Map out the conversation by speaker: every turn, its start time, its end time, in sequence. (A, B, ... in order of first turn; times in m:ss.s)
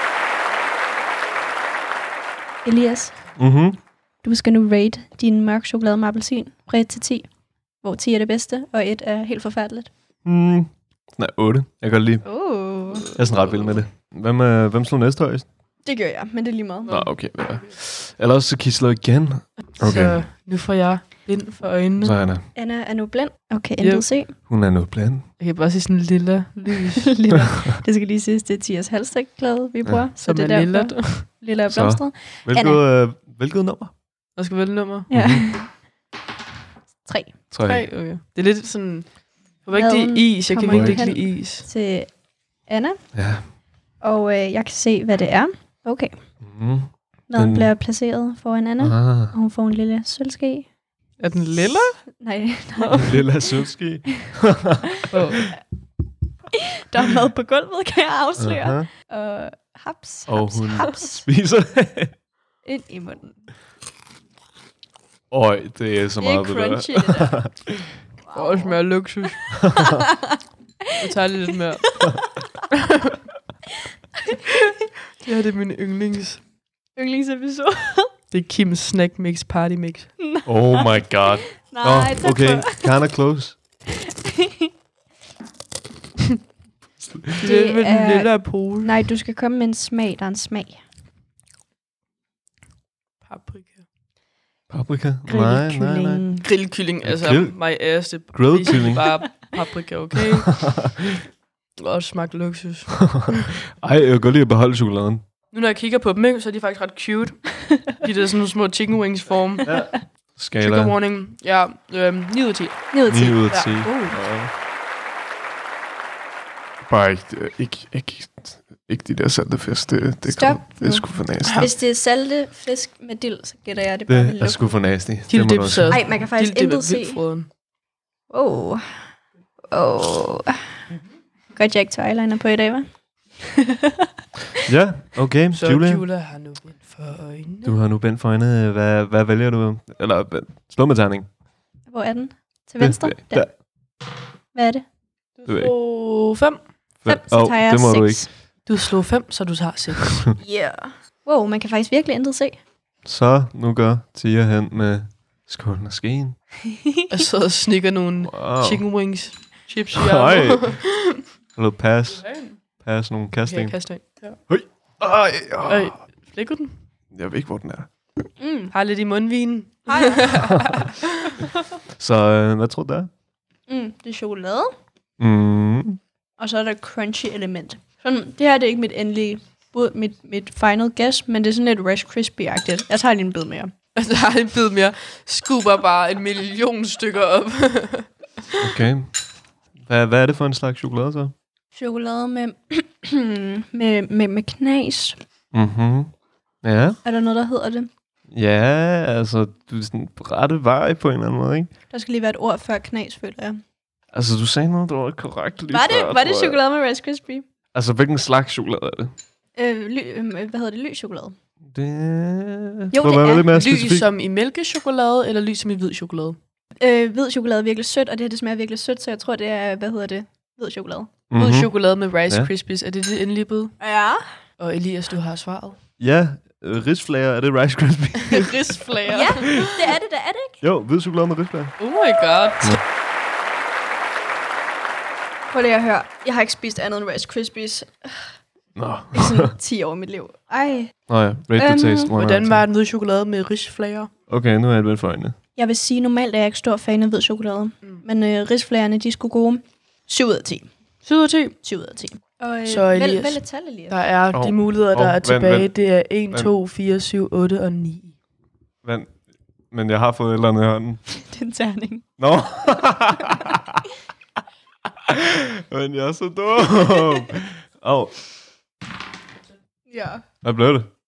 0:02.6-0:03.2 A
0:03.4-0:03.8 B
0:04.2-0:07.3 A
0:07.8-0:09.9 A
0:10.2-0:12.2 B
0:12.2-0:13.1 A
0:13.1-0:15.5 B
0:15.8-0:17.0 A
0:16.9-0:17.7 C
0:16.9-0:20.2 B
0:19.7-0:22.2 C
0:22.0-0:22.5 B
0:22.6-0:24.3 A
0:23.8-0:24.1 C
0:24.5-0:25.3 B
0:25.4-0:27.2 C
0:27.0-0:32.8 A
0:30.2-0:31.3 C
0:31.7-0:33.9 B
0:34.4-0:35.1 C
0:35.1-0:35.5 B
0:35.1-0:35.7 A
0:37.0-0:37.4 A
0:37.5-0:37.9 B
0:37.7-0:41.6 C
0:39.8-0:43.0 A
0:40.7-0:41.0 B
0:43.1-0:43.5 B
0:44.0-0:46.2 A
0:46.4-0:47.7 B
0:47.3-0:50.7 A
0:48.8-0:49.4 B
0:51.2-0:52.0 C
0:52.1-0:53.2 A
0:52.8-0:53.1 C
0:53.0-0:55.2 B
0:55.1-0:55.4 C
0:56.8-1:01.3 A
0:58.4-0:58.9 B
1:00.3-1:02.2 B
1:02.6-1:03.4 A
1:05.3-1:07.7 B
1:06.2-1:07.5 A
1:08.2-1:09.0 A
1:08.3-1:09.5 C
1:09.6-1:10.0 B
1:09.8-1:11.0 A
1:11.0-1:11.9 C
1:11.8-1:12.1 A
1:14.3-1:14.6 A
1:15.2-1:16.4 C
1:17.0-1:18.1 A
1:18.3-1:20.2 C
1:20.2-1:22.9 A
1:20.5-1:23.6 B
1:24.3-1:24.7 A
1:27.4-1:29.1 C
1:27.4-1:30.8 A
1:33.2-1:33.9 C
1:34.7-1:36.4 B
1:35.3-1:36.5 A
1:36.4-1:40.7 C
1:37.0-1:37.6 B
1:38.3-1:39.2 B
1:40.5-1:41.2 B
1:41.8-1:43.5 C
1:43.0-1:45.2 B
1:45.5-1:49.7 C
1:49.6-1:51.0 B
1:50.6-1:53.0 C
1:52.9-1:54.2 A
1:53.1-1:54.5 B
1:53.5-1:53.8 C
1:56.9-2:01.7 B
2:00.3-2:04.6 A
2:04.1-2:06.0 B
2:05.3-2:07.5 C
2:05.9-2:07.2 A
2:08.3-2:09.0 A
2:09.7-2:10.6 A
2:11.5-2:13.9 A
2:14.7-2:16.1 B
2:15.6-2:17.8 C
2:17.6-2:21.3 B
2:21.9-2:23.6 A
2:22.8-2:23.5 B
2:24.5-2:24.8 A
2:25.4-2:26.7 C
2:25.5-2:25.7 B
2:27.0-2:28.3 B
2:27.0-2:28.3 A
2:28.6-2:30.3 C
2:30.4-2:32.6 A
2:33.0-2:36.4 B
2:37.1-2:41.2 C
2:38.2-2:38.8 B
2:39.9-2:40.9 B
2:41.6-2:43.8 B
2:42.2-2:42.6 C
2:43.4-2:44.4 C
2:44.5-2:46.0 B
2:45.7-2:46.8 C
2:47.1-2:47.9 B
2:48.4-2:48.7 A
2:48.7-2:51.4 C
2:49.9-2:50.7 A
2:51.9-2:53.1 B
2:53.7-2:54.8 A
2:55.2-2:56.0 B
2:56.4-3:03.7 A
3:04.0-3:08.1 C
3:08.6-3:09.1 B
3:09.8-3:11.3 B
3:11.7-3:15.2 A
3:15.5-3:17.0 B
3:17.0-3:17.9 A
3:18.3-3:21.7 B
3:21.9-3:23.6 A
3:24.1-3:26.6 B
3:25.7-3:27.4 A
3:27.7-3:29.1 B
3:29.6-3:31.4 A
3:31.7-3:34.1 B
3:32.9-3:33.5 A
3:33.5-3:36.4 C
3:36.8-3:41.1 A
3:41.3-3:42.5 B
3:41.4-3:43.8 C
3:43.8-3:44.3 A
3:44.6-3:45.8 C
3:46.0-3:48.8 B
3:48.3-3:49.7 C
3:49.1-3:50.6 A
3:50.6-3:51.8 B
3:51.8-3:52.8 C
3:55.5-3:58.4 A
3:58.8-3:59.5 B
3:59.1-4:00.9 A
4:01.1-4:02.6 B
4:01.6-4:02.1 A
4:02.1-4:04.1 C
4:04.3-4:05.4 B
4:05.6-4:10.7 A
4:11.0-4:11.6 C
4:11.6-4:14.0 A
4:12.7-4:18.2 C
4:14.3-4:15.7 B
4:18.8-4:19.1 B
4:19.7-4:21.0 B
4:21.2-4:22.0 A
4:22.2-4:23.8 B
4:25.0-4:28.2 B
4:29.9-4:30.2 A
4:30.4-4:30.9 B